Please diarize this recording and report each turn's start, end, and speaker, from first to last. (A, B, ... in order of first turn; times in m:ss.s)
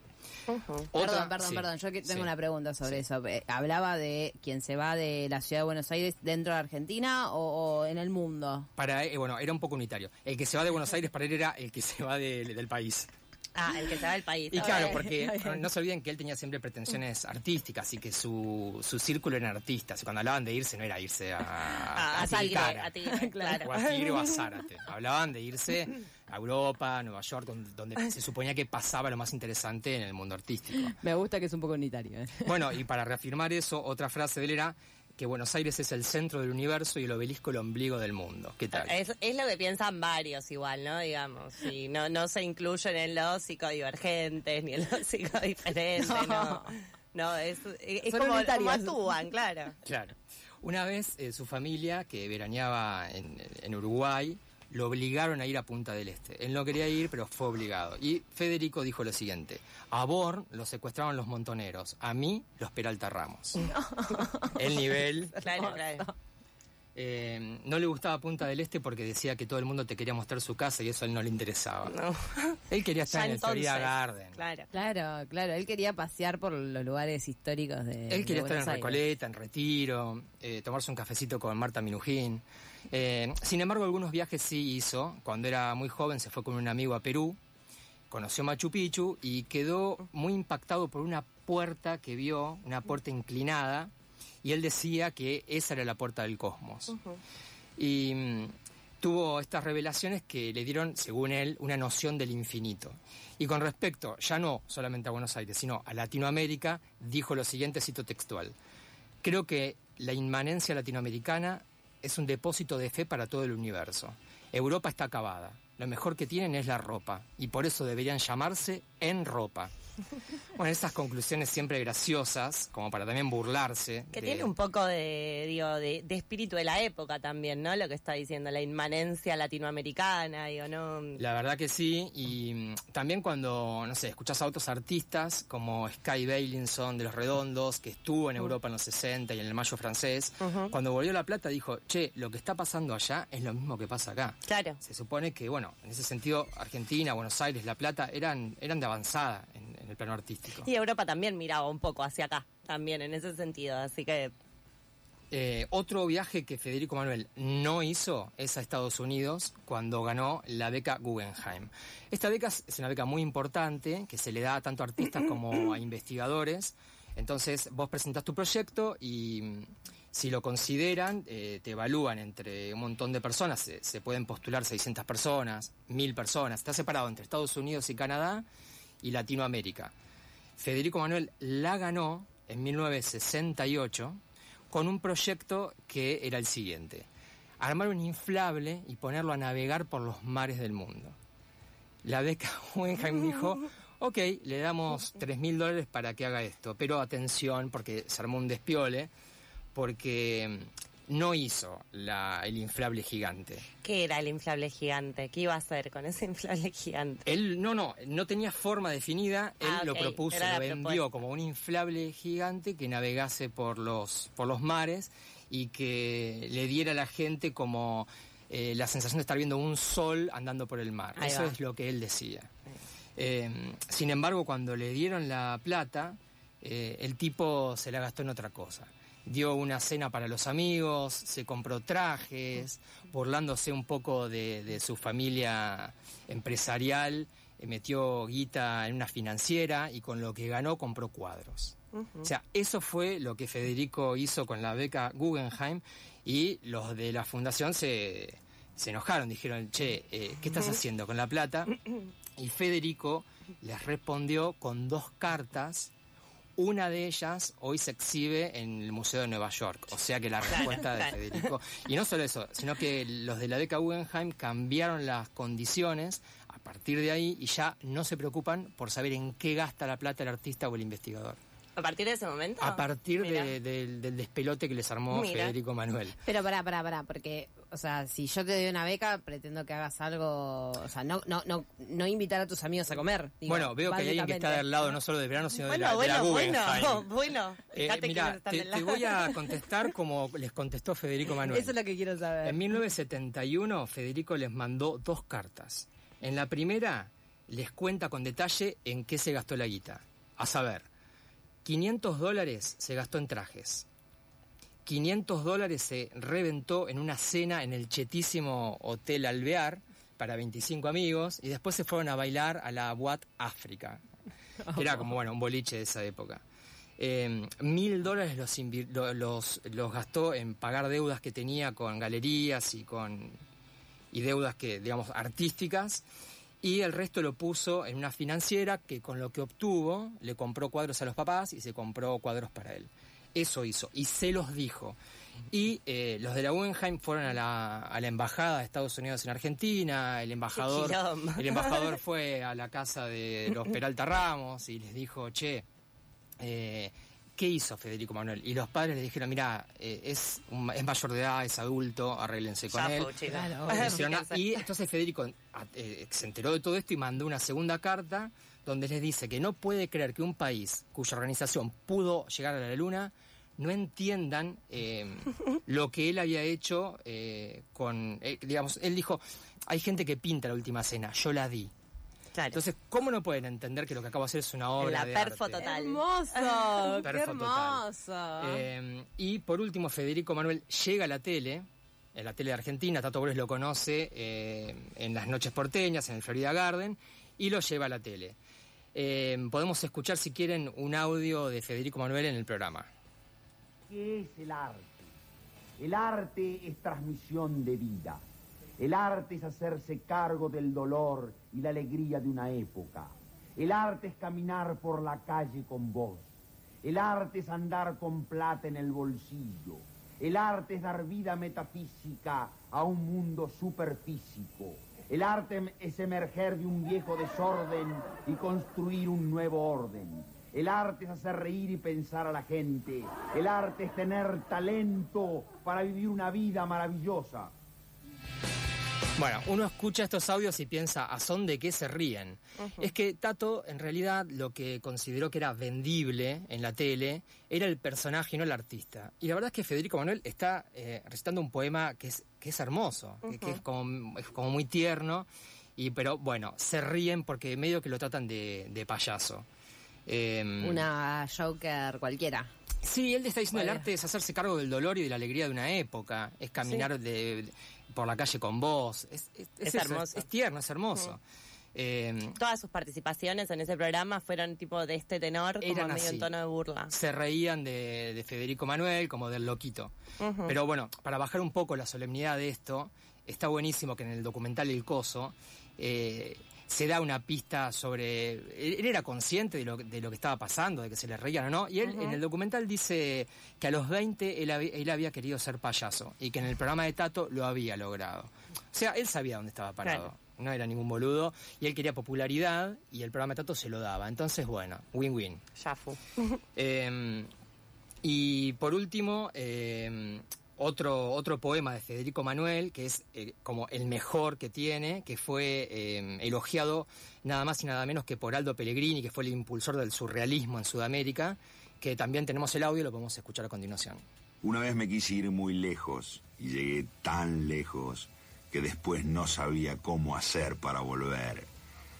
0:00.5-0:00.9 A
0:00.9-0:02.3 B
0:01.0-0:08.7 C
0:08.8-0:13.1 B
0:13.5-0:15.0 A
0:14.5-0:23.0 B
0:14.6-0:15.6 C
0:22.0-0:24.1 A
0:22.2-0:23.6 C
0:23.5-0:30.9 B
0:30.8-0:32.6 C
0:32.4-0:39.0 B
0:38.7-0:49.7 A
0:46.0-0:46.7 C
0:48.0-0:49.2 C
0:49.8-1:03.6 B
1:03.9-1:04.5 C
1:04.5-1:05.4 B
1:05.4-1:06.1 A
1:05.5-1:06.0 C
1:06.9-1:12.0 B
1:11.9-1:12.5 A
1:12.7-1:14.4 B
1:13.1-1:14.7 A
1:14.7-1:19.0 C
1:18.1-1:27.4 B
1:28.1-1:33.9 B
1:34.4-1:37.0 B
1:37.8-1:48.5 B
1:49.2-1:59.7 B
2:00.6-2:04.5 B
2:04.1-2:11.2 A
2:11.2-2:30.7 B
2:20.4-2:20.7 A
2:24.5-2:24.8 A
2:30.6-2:34.3 A
2:35.3-2:58.4 B
2:59.0-2:59.9 B
3:00.6-3:04.2 B
3:04.7-3:07.1 B
3:07.6-3:11.1 B
3:12.0-3:19.1 B
3:19.7-3:23.7 B
3:23.8-3:27.2 A
3:27.2-3:42.5 B
3:29.6-3:31.0 A
3:41.2-3:41.5 A
3:43.2-4:11.8 B
4:12.4-4:15.9 B
4:16.6-4:31.4 B
4:20.5-4:21.2 A
4:31.8-4:33.5 A
4:32.6-4:36.2 B
4:35.1-4:35.5 A
4:36.2-4:44.9 C
4:43.4-4:47.1 B
4:45.7-4:49.4 A
4:47.7-4:51.8 B
4:51.4-4:52.6 C
4:52.4-5:00.9 B
5:01.6-5:03.8 B
5:04.8-5:14.0 B
5:14.7-5:16.4 B
5:17.0-5:23.4 B
5:24.1-5:26.0 B
5:26.6-5:35.0 B
5:35.5-5:45.6 B
5:40.6-5:42.0 A
5:46.4-6:11.7 B
5:52.7-5:54.5 A
6:12.5-6:15.7 B
6:14.8-6:17.0 A
6:15.6-6:18.7 C
6:17.0-6:17.8 B
6:18.4-6:28.4 B
6:28.9-6:32.9 B
6:33.9-6:35.1 D
6:35.8-6:38.2 D
6:38.8-6:46.3 D
6:46.8-7:07.5 D
7:09.2-7:29.4 B
7:12.6-7:12.8 A
7:23.3-7:23.6 A
7:30.1-7:30.9 B
7:30.6-7:32.5 C
7:32.8-7:41.2 B
7:33.6-7:33.8 C
7:39.6-7:40.2 A
7:41.7-7:42.4 B
7:42.4-7:46.9 A
7:45.6-7:46.3 B
7:46.9-7:49.9 B
7:50.2-7:50.5 A
7:50.4-8:15.4 B
8:01.8-8:02.2 A
8:15.6-8:16.3 A
8:16.5-8:17.3 B
8:18.0-8:34.0 B
8:34.4-8:41.5 E